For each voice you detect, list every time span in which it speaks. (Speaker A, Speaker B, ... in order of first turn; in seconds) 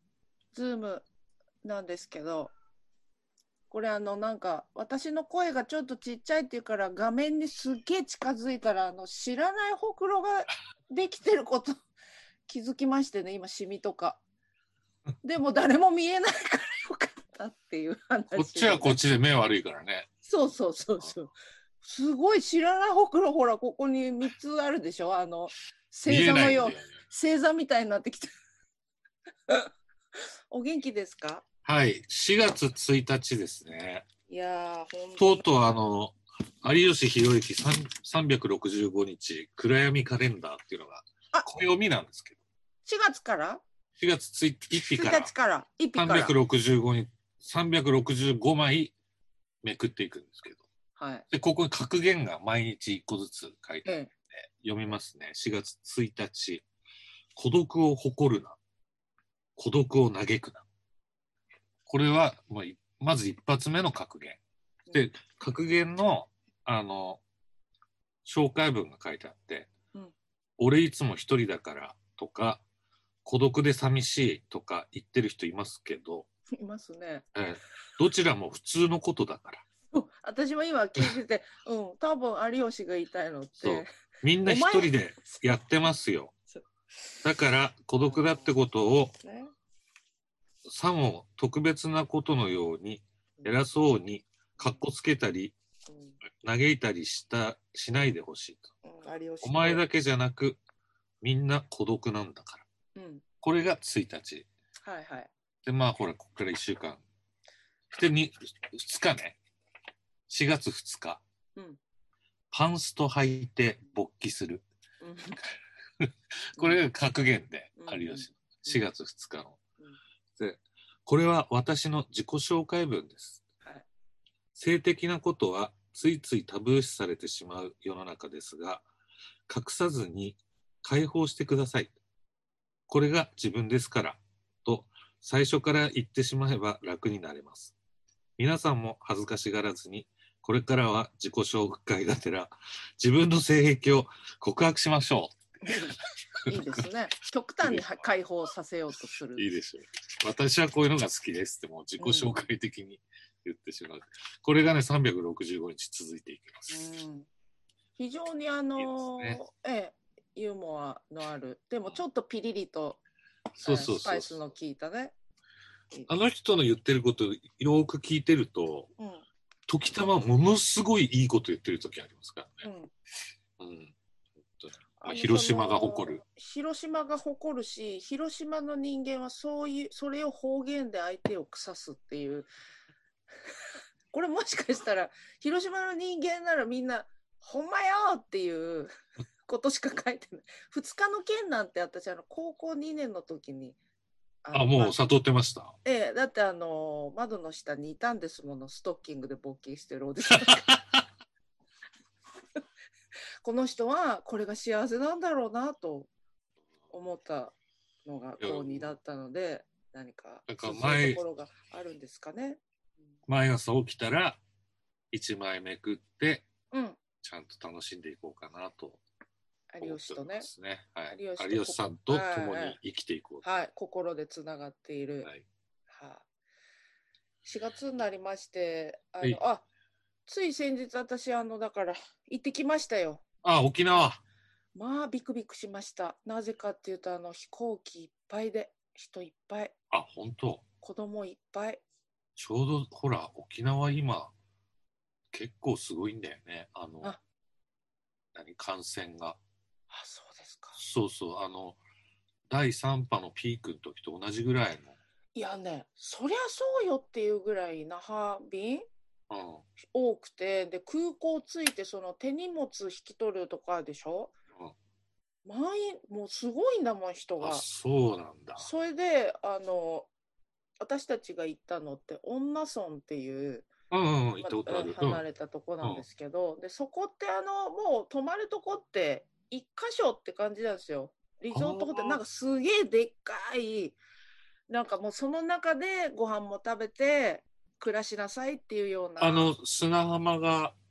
Speaker A: 0.5-1.1, 1.6-2.5, 3.7-11.8, 12.5-14.2, 15.2-19.0, 20.2-28.3, 30.5-31.4, 34.3-35.5, 42.9-43.6, 44.9-46.4, 51.0-51.3, 53.9-54.1, 76.5-77.2, 79.9-83.9, 84.4-85.4, 88.0-88.5, 89.2-89.5, 95.9-96.2, 98.8-99.8, 103.0-103.2, 104.8-105.3, 115.0-115.4, 116.6-116.8, 117.8-118.8, 145.6-149.5, 152.0-152.3, 156.7-157.3, 158.0-163.0, 163.6-165.1, 169.0-169.3, 172.6-172.9, 175.0-182.5, 184.1-189.0, 189.5-193.8, 194.4-195.0, 195.8-200.7, 203.4-206.1, 206.9-207.5, 208.1-212.6, 216.7-217.0, 219.7-220.5, 221.1-222.8, 223.4-225.3, 225.9-226.2, 227.4-229.7, 230.3-233.2, 234.8-239.7, 240.8-241.8, 249.9-250.8, 255.3-258.9, 259.9-264.3, 265.4-267.7, 268.6-270.1, 270.8-273.7, 274.4-284.0, 284.7-289.5
Speaker B: 18.3-20.1, 26.1-26.9, 31.6-34.1, 35.2-42.4, 44.0-45.3, 46.0-49.0, 49.6-50.6, 51.3-56.6, 57.4-58.6, 59.6-60.7, 61.9-64.4, 64.9-67.2, 68.2-69.7, 70.6-72.6, 73.2-76.3, 77.3-79.7, 83.6-86.3, 87.2-89.2, 90.7-95.5, 96.4-98.7, 99.4-100.6, 101.2-102.7, 103.4-104.5, 105.7-107.0, 107.9-109.4, 110.3-111.2, 112.5-114.7, 116.0-119.6, 120.4-123.4, 124.5-128.9, 129.5-131.9, 132.9-137.8, 138.4-146.8, 149.4-156.8, 158.8-159.4, 163.6-164.5, 166.1-168.9, 169.7-172.7, 173.6-173.9, 174.5-176.2, 194.5-195.8, 200.4-201.0, 208.4-208.9, 210.5-211.2, 213.3-214.4, 215.1-216.5, 217.2-219.0, 219.8-223.4, 233.4-234.2, 239.9-240.6, 242.4-244.3, 245.3-247.2, 248.3-249.4, 250.8-251.8, 252.5-255.0, 259.3-259.6, 267.4-268.7, 273.9-275.2, 281.5-282.2, 289.2-290.8